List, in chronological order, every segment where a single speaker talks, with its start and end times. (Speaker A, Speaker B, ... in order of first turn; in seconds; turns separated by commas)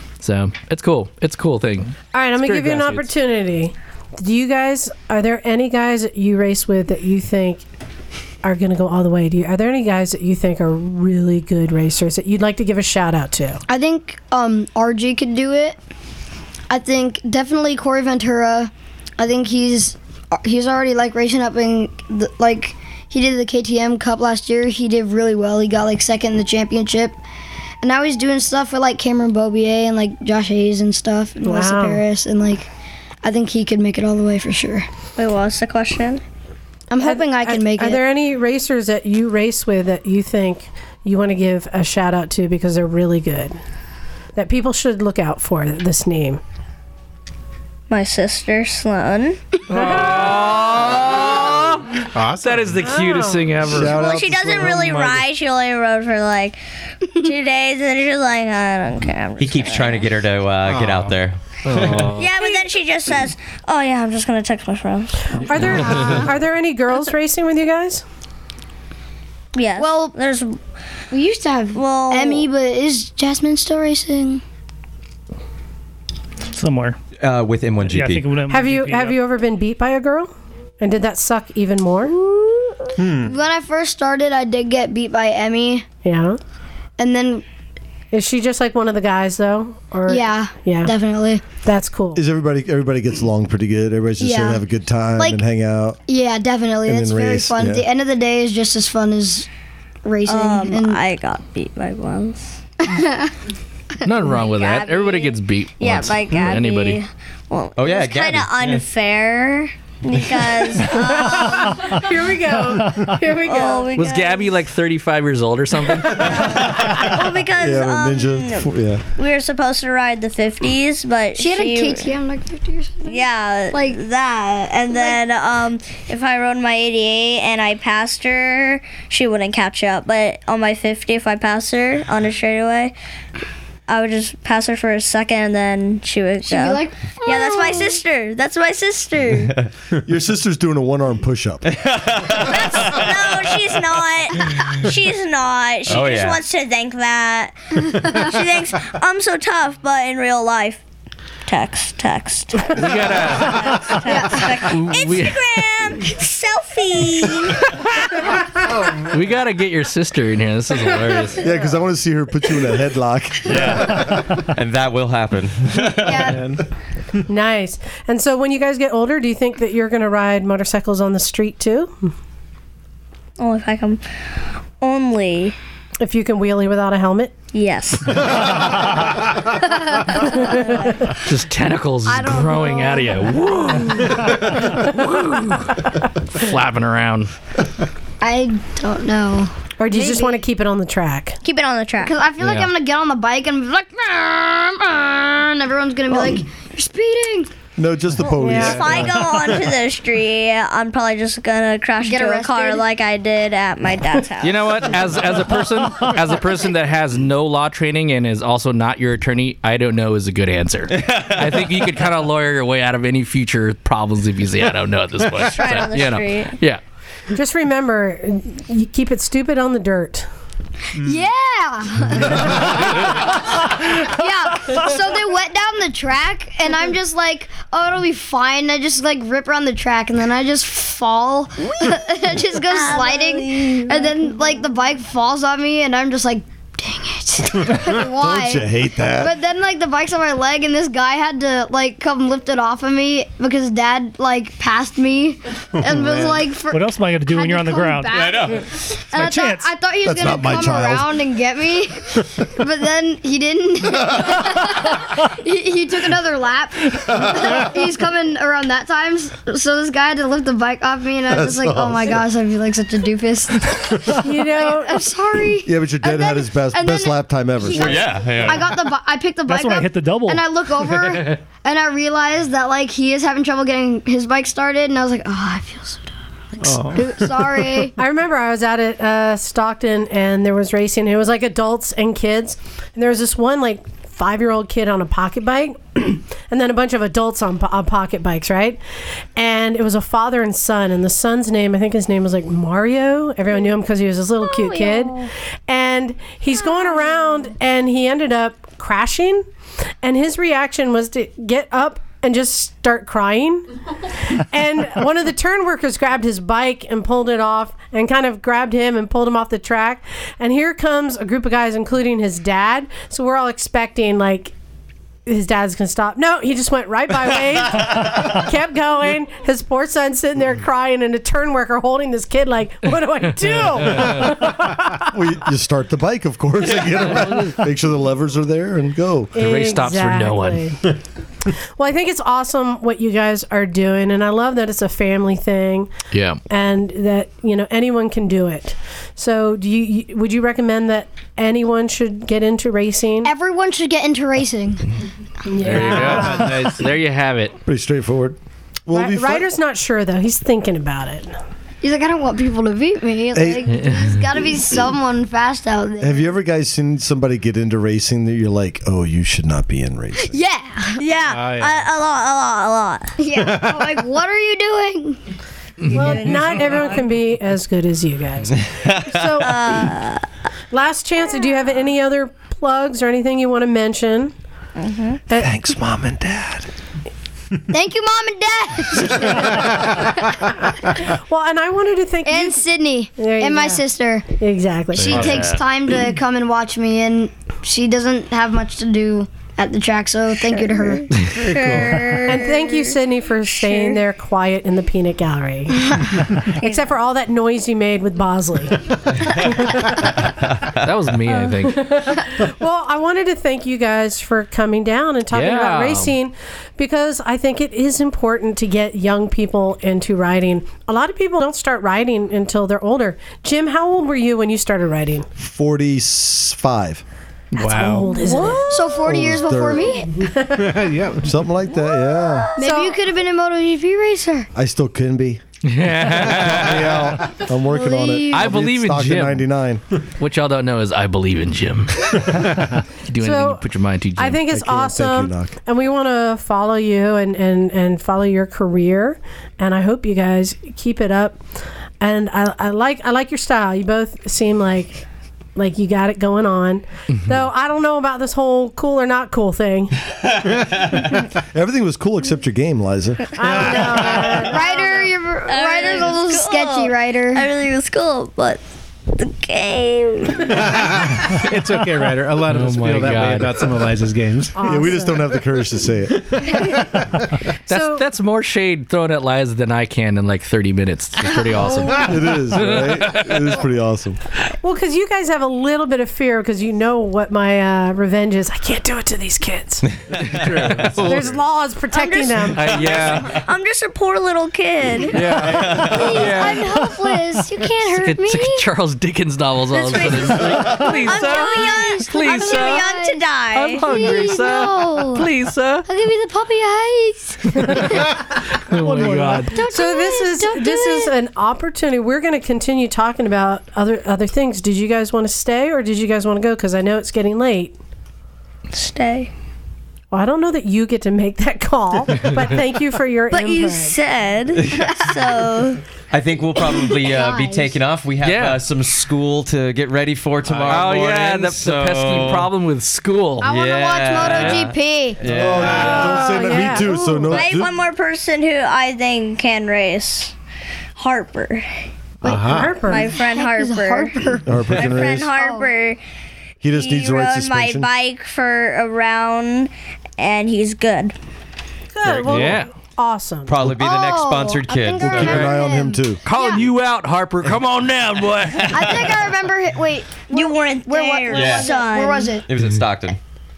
Speaker A: 0.2-3.1, Speaker B: 2.1-7.6, Speaker B: 8.4-13.6, Speaker C: 13.7-15.8, Speaker C: 16.7-27.2, Speaker C: 27.8-32.7, Speaker B: 31.4-32.0, Speaker C: 33.2-34.9, Speaker D: 35.2-36.2, Speaker C: 36.9-38.0, Speaker B: 37.0-43.6, Speaker B: 44.4-46.4, Speaker D: 47.9-49.4, Speaker A: 49.7-54.0, Speaker B: 49.8-50.1, Speaker E: 52.1-52.8, Speaker B: 52.8-53.5, Speaker F: 53.6-55.2, Speaker D: 53.9-56.6, Speaker D: 57.1-60.1, Speaker G: 59.4-62.2, Speaker E: 60.7-61.1, Speaker A: 61.6-62.3, Speaker D: 62.2-65.3, Speaker B: 65.3-68.0, Speaker A: 65.5-66.3, Speaker D: 69.5-70.6, Speaker C: 69.8-70.1, Speaker C: 71.1-74.4, Speaker D: 71.7-72.5, Speaker H: 76.5-77.0, Speaker G: 77.2-78.2, Speaker H: 77.8-79.2, Speaker B: 78.5-82.1, Speaker C: 82.1-85.8, Speaker E: 83.0-83.3, Speaker B: 86.0-86.4, Speaker C: 87.0-87.4, Speaker B: 88.1-90.9, Speaker C: 90.1-91.4, Speaker B: 91.5-92.2, Speaker F: 92.1-96.0, Speaker C: 94.2-94.6, Speaker C: 96.1-99.5, Speaker F: 96.8-97.8, Speaker C: 100.0-101.0, Speaker D: 100.3-102.6, Speaker C: 102.8-103.3, Speaker A: 104.0-107.0, Speaker D: 104.2-111.9, Speaker G: 107.8-108.8, Speaker B: 110.9-113.9, Speaker D: 113.2-114.6, Speaker A: 113.9-116.6, Speaker G: 116.5-117.0, Speaker D: 116.9-122.1, Speaker F: 117.5-119.0, Speaker C: 121.3-124.0, Speaker D: 123.0-132.9, Speaker C: 124.9-125.2, Speaker D: 133.9-139.6, Speaker C: 136.4-138.0, Speaker F: 140.0-141.7, Speaker G: 141.7-143.5, Speaker D: 142.3-150.8, Speaker G: 145.9-146.4, Speaker D: 151.5-157.7, Speaker A: 152.7-154.0, Speaker C: 154.1-154.6, Speaker A: 154.7-155.5, Speaker E: 158.6-159.2, Speaker A: 159.1-161.4, Speaker F: 161.4-164.1, Speaker E: 163.4-164.5, Speaker G: 164.5-166.4, Speaker C: 166.0-166.4, Speaker E: 166.0-166.6, Speaker B: 167.3-171.9, Speaker D: 173.4-174.0, Speaker D: 174.8-175.6, Speaker B: 176.0-177.3, Speaker D: 177.5-178.6, Speaker C: 179.6-180.5, Speaker B: 180.2-180.9, Speaker D: 180.3-180.9, Speaker A: 181.2-187.3, Speaker C: 182.1-183.5, Speaker C: 188.2-190.4, Speaker B: 189.8-191.4, Speaker D: 191.4-192.1, Speaker C: 192.0-197.5, Speaker A: 192.4-192.7, Speaker F: 197.8-199.4, Speaker D: 198.3-205.0, Speaker B: 198.4-198.8, Speaker C: 202.0-202.8, Speaker A: 204.4-216.8, Speaker G: 211.1-211.7, Speaker D: 215.5-216.6, Speaker B: 217.3-220.3, Speaker C: 221.0-248.3, Speaker E: 222.3-222.8, Speaker D: 232.6-234.3, Speaker F: 237.8-239.3, Speaker E: 245.8-246.4, Speaker H: 246.7-248.6, Speaker G: 248.1-248.7, Speaker C: 249.1-277.9, Speaker H: 249.1-249.7, Speaker F: 250.0-251.1, Speaker F: 261.3-262.2, Speaker B: 264.1-265.0, Speaker F: 265.6-268.2, Speaker G: 267.7-268.7, Speaker H: 269.4-270.4, Speaker E: 276.6-277.6, Speaker B: 277.9-288.8, Speaker B: 289.4-299.4, Speaker D: 294.4-295.3, Speaker D: 296.5-297.4, Speaker B: 300.0-303.7, Speaker B: 304.3-314.5, Speaker B: 315.2-325.1, Speaker A: 323.4-324.1, Speaker F: 325.0-329.4, Speaker A: 326.9-327.6, Speaker A: 329.3-330.7, Speaker B: 329.3-330.8, Speaker B: 331.8-335.9, Speaker A: 336.1-336.4, Speaker B: 336.5-343.3, Speaker C: 343.2-344.8, Speaker B: 345.4-346.7, Speaker A: 345.6-347.5, Speaker E: 345.7-346.8, Speaker F: 347.6-349.5, Speaker B: 348.9-351.4, Speaker C: 351.8-356.3, Speaker F: 353.3-353.7, Speaker A: 353.6-354.2, Speaker F: 356.0-360.4, Speaker C: 360.2-361.1, Speaker D: 361.0-363.1, Speaker E: 361.3-361.9, Speaker C: 363.2-365.2, Speaker E: 363.3-364.0, Speaker A: 365.8-366.1, Speaker B: 365.9-369.6, Speaker D: 365.9-367.0, Speaker D: 369.4-370.2, Speaker B: 370.7-374.3, Speaker D: 374.8-375.2, Speaker F: 375.3-376.7, Speaker C: 377.7-380.5, Speaker E: 379.5-380.1, Speaker B: 380.9-382.6, Speaker C: 382.2-384.2, Speaker B: 383.2-383.8, Speaker B: 384.4-385.3, Speaker A: 385.0-385.6, Speaker E: 385.1-385.5, Speaker C: 385.1-391.1, Speaker D: 390.8-394.0, Speaker A: 391.1-392.0, Speaker B: 392.2-400.0, Speaker D: 396.6-396.9, Speaker A: 400.8-401.9, Speaker B: 401.3-415.3, Speaker A: 405.3-406.2, Speaker F: 415.4-417.0, Speaker E: 417.5-418.3, Speaker B: 417.6-418.6, Speaker D: 418.1-419.1, Speaker C: 418.3-420.3, Speaker F: 419.0-420.0, Speaker B: 420.2-420.7, Speaker E: 420.5-421.4, Speaker F: 421.2-422.5, Speaker D: 421.7-422.6, Speaker C: 422.6-424.5, Speaker B: 422.6-423.0, Speaker F: 424.5-425.4, Speaker A: 425.6-427.2, Speaker F: 426.0-429.8, Speaker C: 427.6-428.6, Speaker A: 428.3-429.5, Speaker A: 430.2-432.5, Speaker A: 433.1-434.4, Speaker B: 433.2-433.6, Speaker B: 434.1-441.4, Speaker F: 434.4-435.5, Speaker B: 442.0-445.0, Speaker B: 445.6-449.9, Speaker A: 447.1-447.4, Speaker F: 451.5-453.2, Speaker B: 453.4-455.1, Speaker E: 453.4-454.5, Speaker C: 454.4-457.5, Speaker D: 454.6-461.0, Speaker E: 460.5-464.6, Speaker A: 462.5-463.7, Speaker B: 464.6-465.3, Speaker F: 464.6-466.5, Speaker E: 466.4-467.1, Speaker A: 467.7-473.1, Speaker B: 467.7-468.1, Speaker F: 471.9-474.2, Speaker B: 474.6-479.9, Speaker A: 480.2-481.3, Speaker E: 480.2-481.2, Speaker G: 480.3-480.9, Speaker B: 481.0-482.7, Speaker D: 481.9-485.4, Speaker A: 482.5-483.4, Speaker A: 485.1-486.9, Speaker G: 485.4-486.5, Speaker C: 485.8-488.6, Speaker A: 487.8-492.8, Speaker D: 489.7-494.4, Speaker C: 491.0-495.3, Speaker A: 493.5-495.9, Speaker C: 495.9-498.0, Speaker A: 498.6-499.6, Speaker E: 498.8-499.5, Speaker C: 499.5-501.1, Speaker B: 499.5-507.8, Speaker D: 508.7-509.3, Speaker B: 510.1-514.0, Speaker D: 513.3-515.8, Speaker G: 514.5-515.2, Speaker C: 514.7-515.2, Speaker G: 516.1-522.5, Speaker C: 516.6-517.7, Speaker A: 518.2-518.6, Speaker F: 520.5-521.0, Speaker A: 520.7-523.5, Speaker C: 523.4-525.2, Speaker G: 523.4-526.1, Speaker A: 524.2-524.6, Speaker F: 525.2-527.8, Speaker A: 525.8-526.1, Speaker B: 525.8-527.4, Speaker D: 527.3-530.3, Speaker D: 531.0-531.9, Speaker E: 532.2-532.8, Speaker C: 532.2-534.6, Speaker B: 532.4-533.1, Speaker D: 532.8-536.0, Speaker F: 534.4-535.3, Speaker C: 535.3-535.7, Speaker F: 536.6-537.9, Speaker D: 536.7-541.1, Speaker B: 541.9-543.5, Speaker A: 542.0-542.7, Speaker G: 543.5-545.5, Speaker C: 543.6-546.6, Speaker F: 545.0-546.2, Speaker A: 545.2-545.4, Speaker A: 546.2-549.1, Speaker G: 548.5-549.0, Speaker C: 548.7-552.5, Speaker D: 550.3-552.4, Speaker G: 551.3-551.7, Speaker G: 552.5-553.2